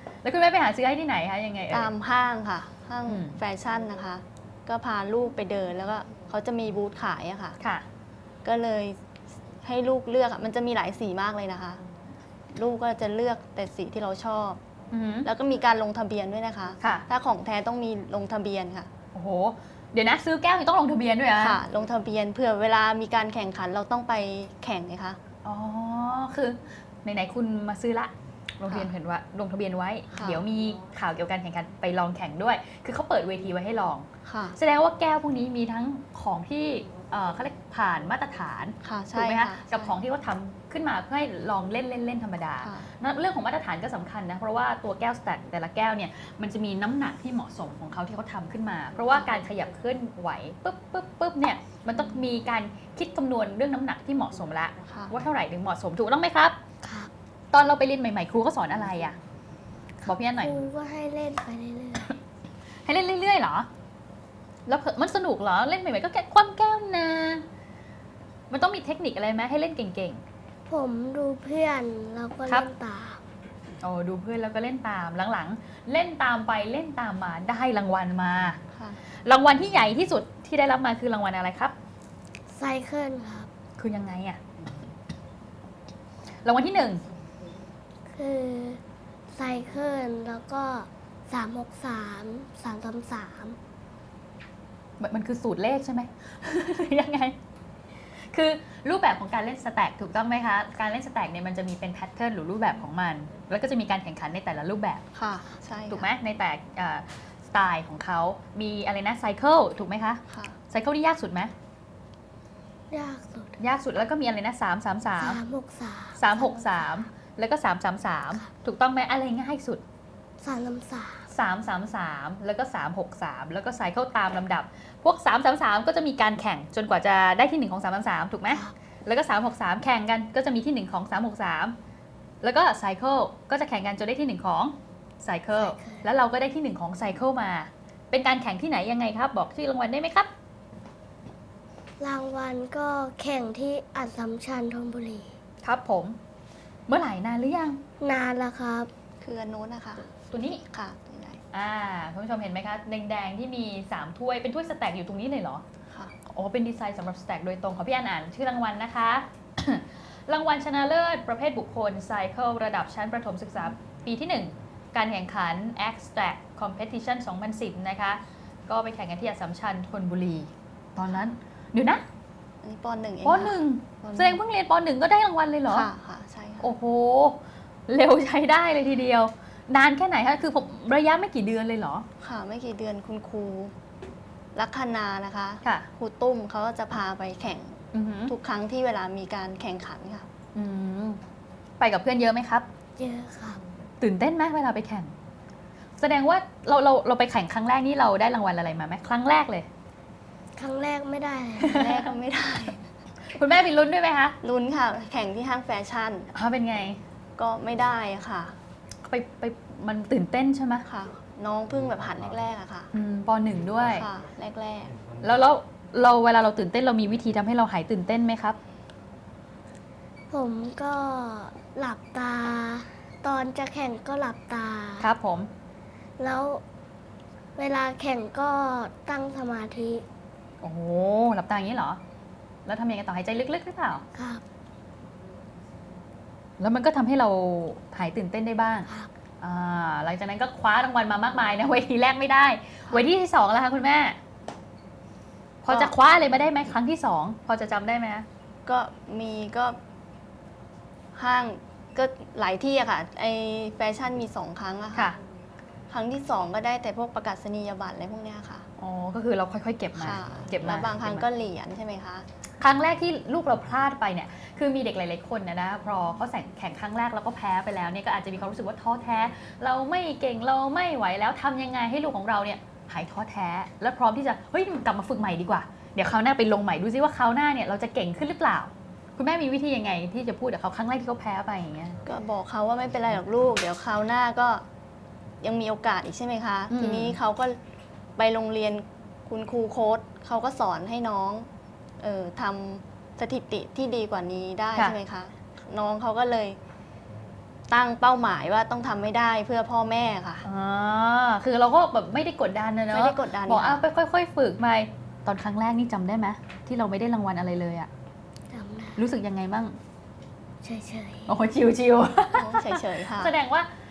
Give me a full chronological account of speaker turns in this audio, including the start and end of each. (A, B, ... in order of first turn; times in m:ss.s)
0:00.2-0:01.9 A
0:01.7-0:07.6 B
0:03.0-0:03.4 A
0:07.6-0:07.8 A
0:08.4-0:11.8 B
0:12.5-0:14.6 B
0:14.9-0:15.3 A
0:15.2-0:18.9 B
0:16.8-0:17.0 A
0:19.1-0:21.6 A
0:21.3-0:25.2 B
0:25.4-0:56.6 A
0:28.6-0:28.9 B
0:30.1-0:30.4 B
0:34.2-0:34.6 B
0:38.8-0:40.0 B
0:42.6-0:42.9 B
0:54.9-0:55.1 B
0:56.8-0:57.1 C
0:57.5-0:59.2 A
1:00.0-1:02.2 C
1:00.0-1:00.5 A
1:02.8-1:03.7 A
1:04.6-1:07.4 A
1:08.5-1:10.2 A
1:10.7-1:13.2 C
1:13.8-1:18.6 A
1:18.7-1:19.0 B
1:19.2-1:21.7 A
1:22.5-1:23.5 C
1:23.8-1:24.4 A
1:26.4-1:27.0 A
1:28.1-1:28.8 C
1:29.3-1:33.6 C
1:35.0-1:37.4 A
1:38.1-1:45.1 A
1:45.1-1:46.1 B
1:45.9-1:51.5 A
1:50.3-1:50.6 B
1:52.9-1:53.6 C
1:53.6-1:55.4 A
1:55.2-1:57.1 C
1:56.2-1:59.8 A
2:00.4-2:01.3 C
2:01.3-2:11.8 A
2:08.5-2:08.7 C
2:12.4-2:20.3 A
2:15.5-2:16.1 C
2:22.0-2:25.4 C
2:25.6-2:26.2 A
2:26.9-2:27.8 A
2:28.0-2:28.9 C
2:29.2-2:30.1 B
2:30.2-2:30.6 A
2:30.7-2:31.4 B
2:31.5-2:35.6 A
2:36.2-2:52.0 A
2:52.6-2:54.4 B
2:53.2-2:55.9 A
2:55.7-2:56.7 B
2:56.6-3:02.0 A
3:02.2-3:03.7 B
3:04.5-3:10.2 B
3:05.6-3:05.9 A
3:07.9-3:08.3 A
3:10.5-3:11.2 A
3:11.8-3:12.7 A
3:13.0-3:13.6 C
3:14.0-3:15.1 A
3:16.0-3:19.7 A
3:20.6-3:21.8 C
3:21.6-3:22.9 B
3:21.7-3:22.1 A
3:23.3-3:24.4 A
3:24.4-3:26.3 B
3:26.3-3:27.0 A
3:27.4-3:28.5 B
3:29.0-3:30.9 A
3:30.8-3:32.9 B
3:32.9-3:34.1 A
3:33.8-3:34.9 B
3:35.2-3:38.6 A
3:40.3-3:45.1 C
3:45.0-3:45.5 A
3:46.2-3:46.6 C
3:47.6-3:50.0 C
3:50.6-3:52.0 A
3:52.6-3:54.0 A
3:54.1-3:54.4 C
3:56.6-3:58.9 A
3:58.8-3:59.1 C
3:59.4-4:04.2 A
4:05.6-4:08.2 A
4:08.6-4:09.8 B
4:11.1-4:15.1 B
4:15.9-4:18.6 B
4:18.8-4:21.3 A
4:19.9-4:22.2 B
4:22.6-4:42.0 A
4:42.0-4:44.6 B
4:45.4-4:47.6 B
4:46.7-4:47.2 A
4:48.2-4:51.5 B
4:52.0-4:56.6 B
4:57.7-5:00.4 B
5:00.4-5:07.9 A
5:02.9-5:03.8 B
5:08.5-5:09.0 C
5:09.0-5:09.8 A
5:10.6-5:11.4 C
5:11.3-5:13.7 A
5:12.3-5:13.4 B